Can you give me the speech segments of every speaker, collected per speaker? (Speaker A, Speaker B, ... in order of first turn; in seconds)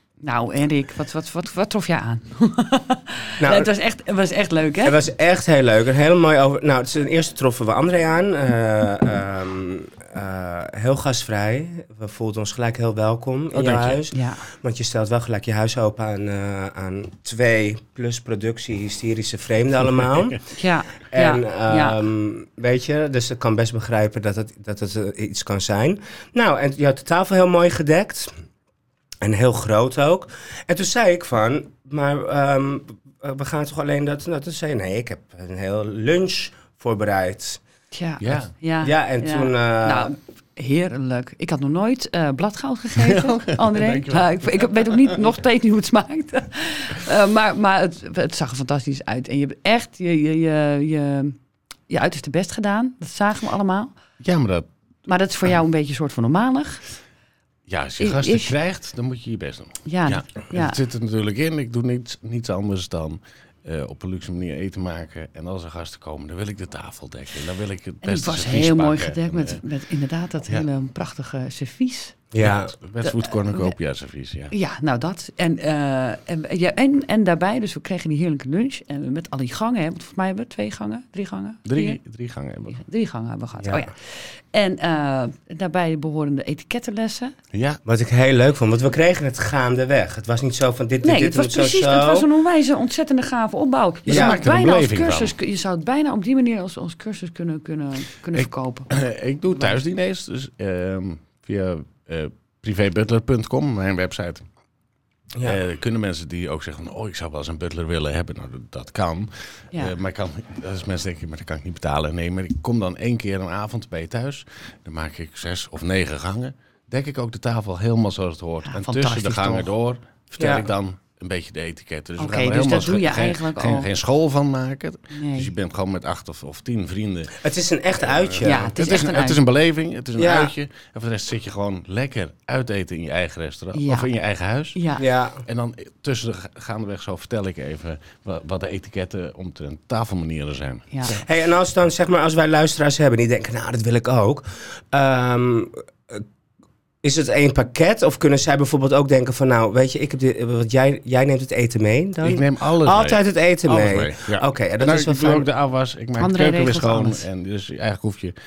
Speaker A: 0.2-5.0, 14.1-14.4, 20.6-22.0, 37.9-51.4, 51.9-53.9, 55.1-56.8, 58.0-58.5, 59.9-60.8, 68.0-72.2, 73.0-73.7, 74.5-82.0, 82.7-87.4, 91.0-98.9, 118.7-119.7, 122.2-123.9, 125.1-125.5, 128.4-129.4, 133.7-134.1, 134.8-135.0, 140.9-141.2, 156.2-157.2
Speaker B: 3.4-3.7, 4.8-20.4, 21.1-28.3, 29.2-37.6, 38.8-40.1, 72.3-72.7, 87.8-92.3, 94.1-94.4, 105.3-105.6, 120.4-120.7, 127.4-128.7, 130.2-130.5, 135.0-135.4, 141.1-146.2, 147.0-155.5
Speaker C: 13.5-14.0, 38.2-38.5, 43.0-45.2, 54.2-54.7, 57.7-69.6, 72.4-74.5, 81.7-82.8, 87.5-87.8, 94.1-95.3, 98.4-104.4, 105.4-127.4, 128.1-134.8, 135.4-140.9, 152.2-158.3